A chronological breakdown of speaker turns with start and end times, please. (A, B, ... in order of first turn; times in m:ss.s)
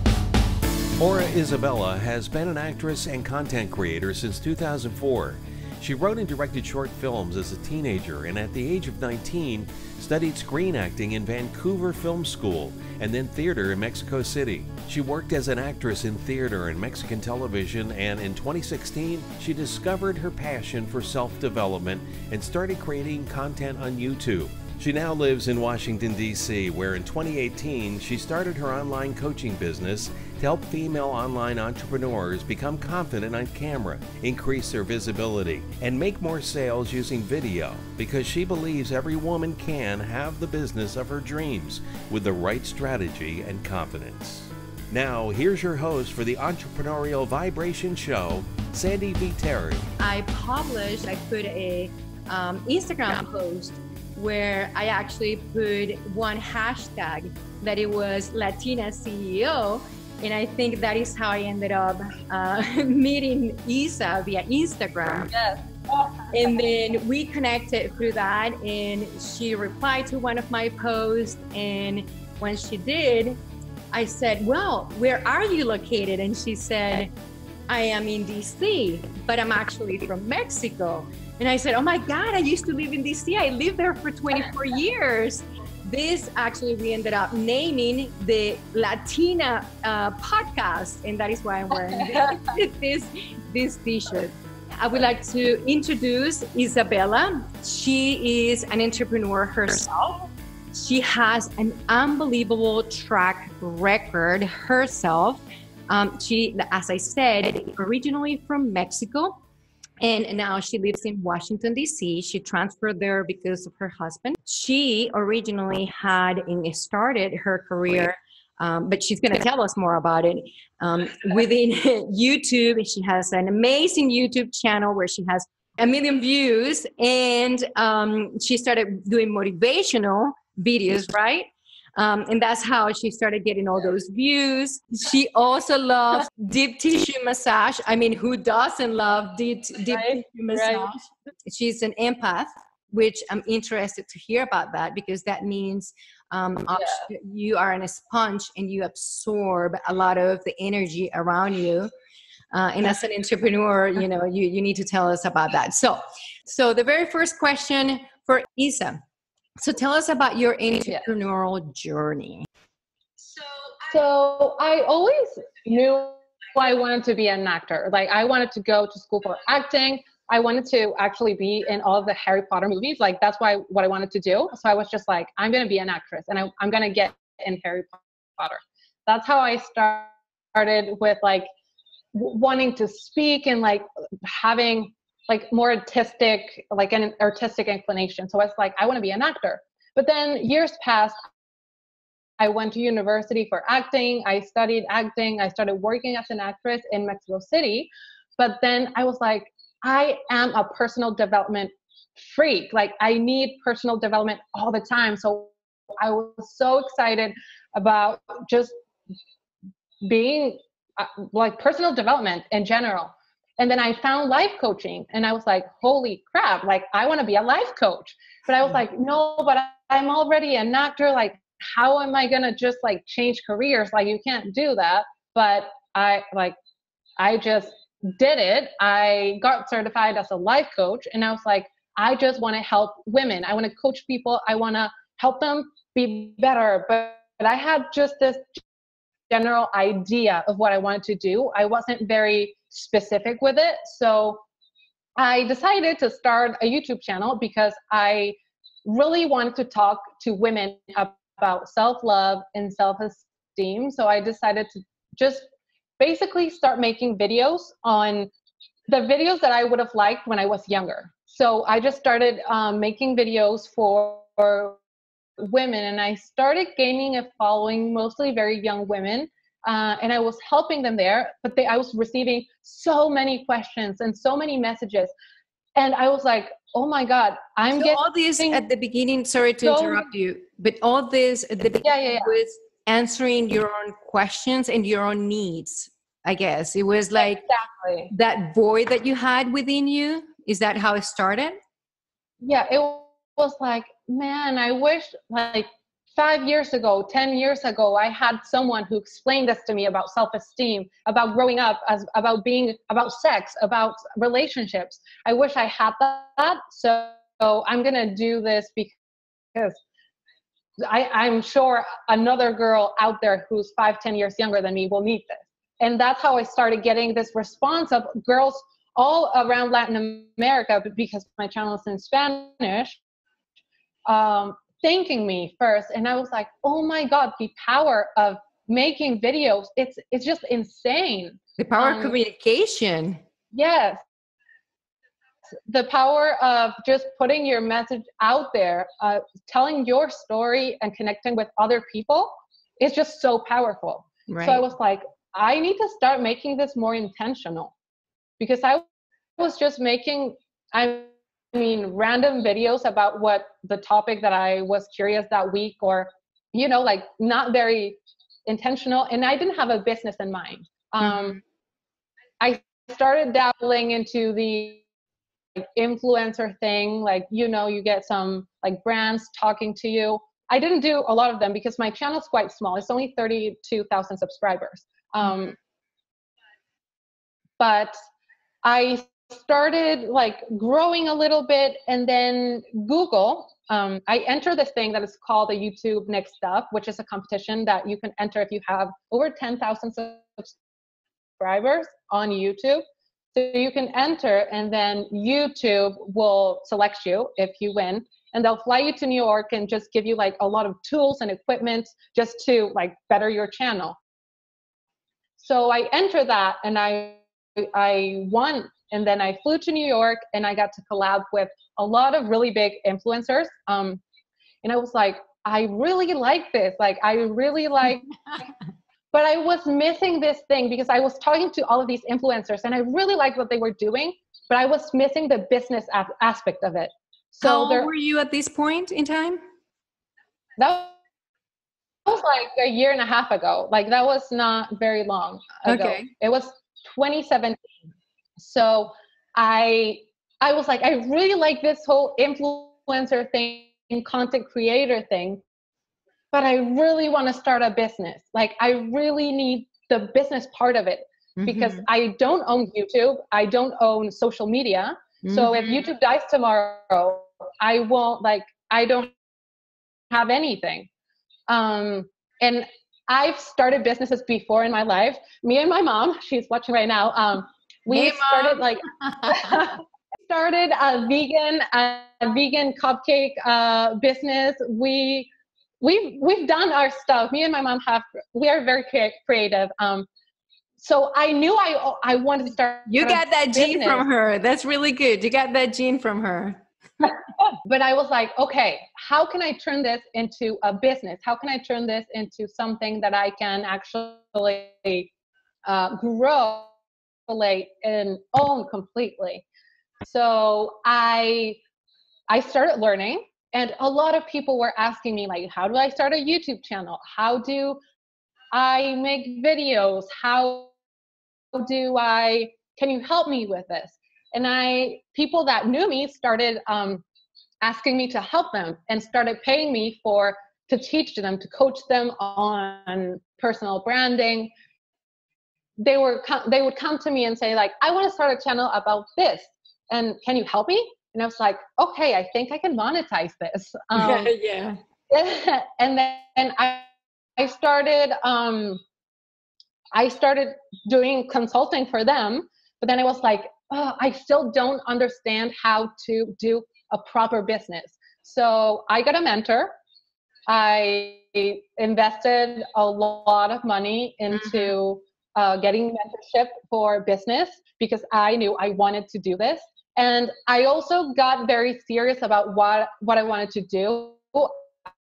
0:01.0-0:49.9 A
0:50.0-1:05.3 B
1:05.3-1:06.1 C
1:06.3-1:13.4 B
1:13.9-1:17.1 B
1:17.7-1:49.4 B
1:50.0-2:31.9 B
2:19.9-2:20.9 C
2:32.5-2:39.0 B
2:39.6-2:42.4 B
2:43.9-3:01.5 C
3:02.1-3:11.2 C
3:12.4-3:28.7 C
3:30.0-3:46.6 C
3:47.2-3:58.6 C
3:59.3-4:04.4 C
4:05.2-4:15.5 C
4:16.0-4:18.3 C
4:18.9-4:24.8 C
4:25.4-4:35.1 C
4:35.8-4:38.6 C
4:37.7-4:47.4 B
4:39.6-4:40.1 C
4:41.8-4:42.3 C
4:47.2-4:48.1 C
4:48.1-4:51.6 B
4:52.4-5:09.0 C
5:09.5-5:09.8 C
5:10.8-5:23.0 C
5:24.1-5:32.2 C
5:31.6-5:33.2 B
5:33.5-5:34.0 C
5:35.7-5:47.7 C
5:44.3-5:44.6 B
5:48.4-5:48.8 C
5:49.4-6:01.4 C
6:02.4-6:04.8 C
6:05.6-6:15.6 C
6:17.6-6:18.0 C
6:18.6-6:30.6 C
6:31.4-6:32.8 C
6:33.3-6:44.0 C
6:45.4-6:54.0 C
6:54.6-6:58.1 C
6:59.1-7:07.9 C
7:07.4-7:09.4 B
7:10.6-7:10.9 C
7:12.0-7:17.6 C
7:15.6-7:16.1 B
7:18.4-7:25.4 C
7:26.3-7:39.1 C
7:31.4-7:31.8 B
7:35.2-7:35.8 B
7:40.1-7:40.9 C
7:41.5-7:55.3 C
7:47.9-7:49.3 B
7:55.8-8:00.1 C
8:00.8-8:04.0 C
8:02.9-8:06.6 B
8:07.6-8:15.1 C
8:15.6-8:16.7 C
8:17.3-8:19.4 C
8:20.0-8:21.6 C
8:22.3-8:27.8 C
8:28.5-8:30.7 C
8:31.5-8:37.0 C
8:37.6-8:44.5 C
8:45.8-8:54.3 C
8:54.0-8:54.8 B
8:55.1-8:56.9 C
8:57.4-8:58.8 C
8:59.9-9:09.7 C
9:10.5-9:24.6 C
9:14.3-9:14.7 B